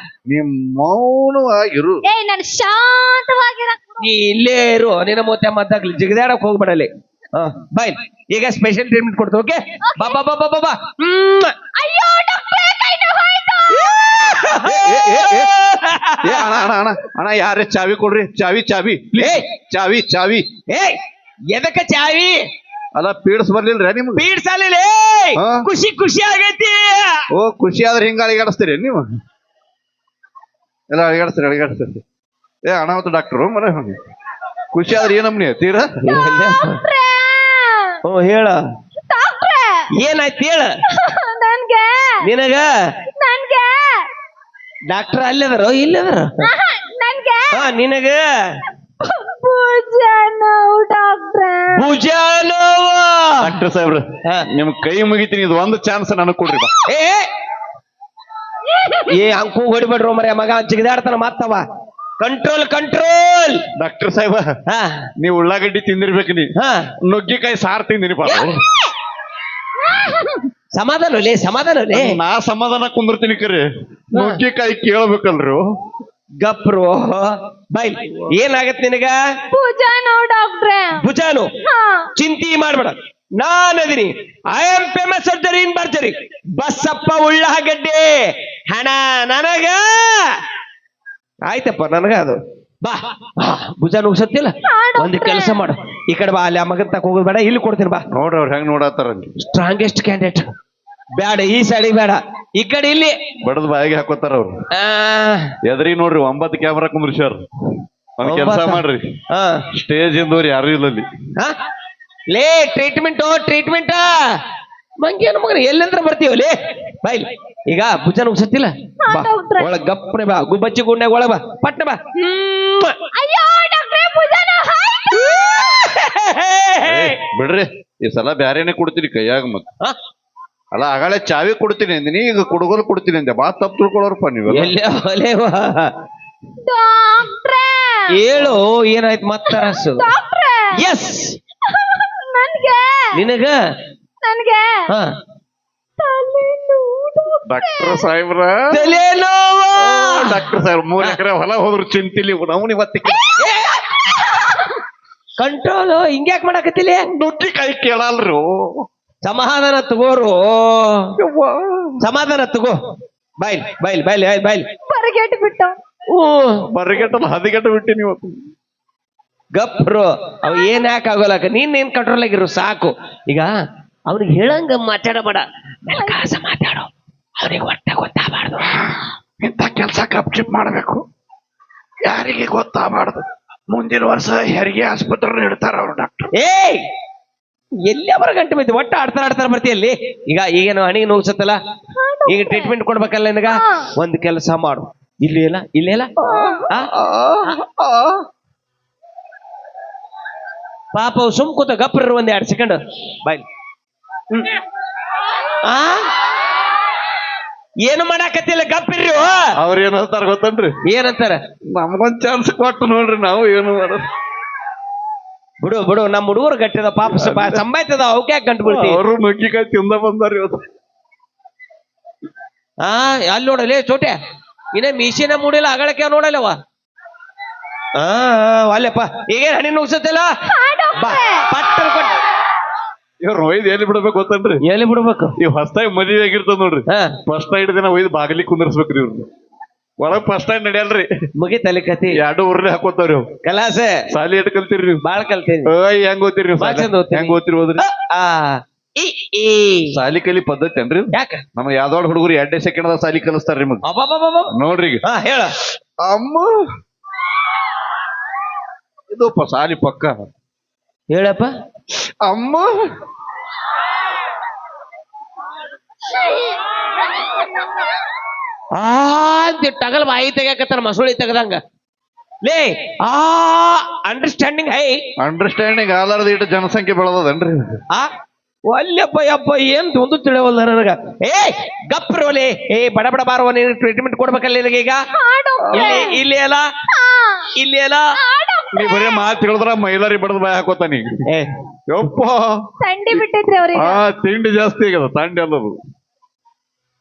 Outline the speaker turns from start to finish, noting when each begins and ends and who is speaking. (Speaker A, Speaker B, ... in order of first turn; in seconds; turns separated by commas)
Speaker A: 0.3-2.0, Speaker B: 2.0-3.8, Speaker C: 4.0-11.6, Speaker B: 9.8-10.2, Speaker B: 11.7-14.5, Speaker C: 13.9-16.7, Speaker A: 14.6-15.5, Speaker A: 16.2-20.4, Speaker C: 19.2-19.4, Speaker C: 20.7-21.0, Speaker C: 21.5-22.4, Speaker A: 22.9-24.2, Speaker C: 24.1-27.2, Speaker A: 25.4-25.6, Speaker A: 27.3-29.0, Speaker A: 30.9-32.0, Speaker A: 32.6-34.0, Speaker A: 34.7-35.9, Speaker C: 36.0-36.8, Speaker B: 36.1-38.0, Speaker C: 38.0-38.6, Speaker B: 39.1-39.9, Speaker C: 40.0-40.8, Speaker B: 40.9-42.2, Speaker C: 42.2-42.7, Speaker B: 43.2-44.1, Speaker C: 44.9-46.3, Speaker B: 46.4-47.7, Speaker C: 47.5-48.5, Speaker B: 49.0-51.9, Speaker C: 51.7-53.5, Speaker A: 53.4-56.7, Speaker C: 56.8-57.3, Speaker B: 58.7-59.1, Speaker C: 59.1-61.6, Speaker C: 62.2-63.6, Speaker A: 63.8-64.5, Speaker C: 64.7-65.1, Speaker A: 65.2-66.5, Speaker C: 66.6-66.9, Speaker A: 67.0-68.6, Speaker B: 69.8-70.4, Speaker C: 70.7-72.2, Speaker A: 71.9-75.6, Speaker C: 74.1-74.4, Speaker C: 76.4-79.2, Speaker B: 79.5-81.1, Speaker C: 81.0-81.5, Speaker B: 81.6-82.1, Speaker C: 82.2-90.3, Speaker C: 91.5-98.0, Speaker B: 94.7-95.6, Speaker A: 98.1-99.3, Speaker C: 99.4-100.5, Speaker C: 101.2-103.2, Speaker A: 103.4-104.5, Speaker C: 104.7-105.5, Speaker A: 105.6-107.5, Speaker A: 108.2-109.1, Speaker C: 108.2-109.6, Speaker A: 109.7-111.1, Speaker C: 112.3-114.3, Speaker C: 115.0-123.0, Speaker B: 119.0-119.7, Speaker B: 123.1-125.7, Speaker C: 125.1-127.2, Speaker A: 126.8-129.7, Speaker A: 130.7-134.7, Speaker C: 134.5-135.9, Speaker B: 136.6-138.1, Speaker C: 138.1-140.0, Speaker B: 139.5-140.7, Speaker C: 140.8-141.4, Speaker B: 141.7-143.1, Speaker C: 143.1-143.5, Speaker B: 144.2-144.9, Speaker B: 146.0-148.1, Speaker A: 147.5-148.7, Speaker C: 148.7-150.4, Speaker A: 149.8-153.2, Speaker C: 153.3-154.7, Speaker C: 155.4-157.1, Speaker A: 157.1-158.8, Speaker C: 159.2-161.1, Speaker A: 161.2-162.0, Speaker C: 162.0-162.7, Speaker C: 163.4-164.7, Speaker B: 164.9-165.8, Speaker C: 166.1-166.6, Speaker A: 166.7-168.3, Speaker C: 169.5-173.5, Speaker B: 170.4-170.8, Speaker C: 174.1-178.7, Speaker A: 178.7-181.0, Speaker A: 182.0-186.3, Speaker C: 186.3-186.8, Speaker C: 187.8-191.6, Speaker B: 191.9-192.7, Speaker C: 192.3-196.1, Speaker B: 193.5-193.9, Speaker A: 196.2-198.2, Speaker B: 196.3-196.7, Speaker C: 200.9-203.4, Speaker C: 205.6-206.1, Speaker C: 207.8-209.5, Speaker A: 209.6-210.7, Speaker C: 210.8-211.4, Speaker A: 211.7-214.0, Speaker C: 215.6-219.0, Speaker A: 217.1-217.6, Speaker A: 218.6-220.6, Speaker C: 222.8-224.2, Speaker C: 224.7-226.6, Speaker C: 228.0-230.3, Speaker B: 230.5-231.5, Speaker C: 230.9-232.2, Speaker A: 233.2-234.6, Speaker C: 234.6-235.4, Speaker A: 235.4-239.3, Speaker C: 236.9-237.2, Speaker A: 240.0-241.1, Speaker C: 241.4-242.2, Speaker A: 242.1-243.2, Speaker C: 243.4-244.1, Speaker A: 244.1-245.0, Speaker C: 245.0-245.7, Speaker A: 245.7-247.8, Speaker C: 246.6-250.0, Speaker A: 249.9-253.8, Speaker C: 251.1-251.4, Speaker C: 253.8-254.5, Speaker A: 254.5-255.0, Speaker C: 255.0-255.5, Speaker A: 256.0-256.6, Speaker A: 259.1-260.1, Speaker C: 261.1-261.5, Speaker A: 262.2-262.8, Speaker C: 268.7-271.6, Speaker C: 272.4-275.0, Speaker A: 275.2-277.8, Speaker C: 278.7-285.0, Speaker B: 285.1-286.2, Speaker A: 285.6-286.1, Speaker C: 285.7-286.7, Speaker B: 286.9-287.5, Speaker C: 287.6-288.1, Speaker B: 288.2-289.4, Speaker A: 288.7-291.1, Speaker A: 291.9-292.5, Speaker B: 292.8-294.0, Speaker A: 293.1-295.8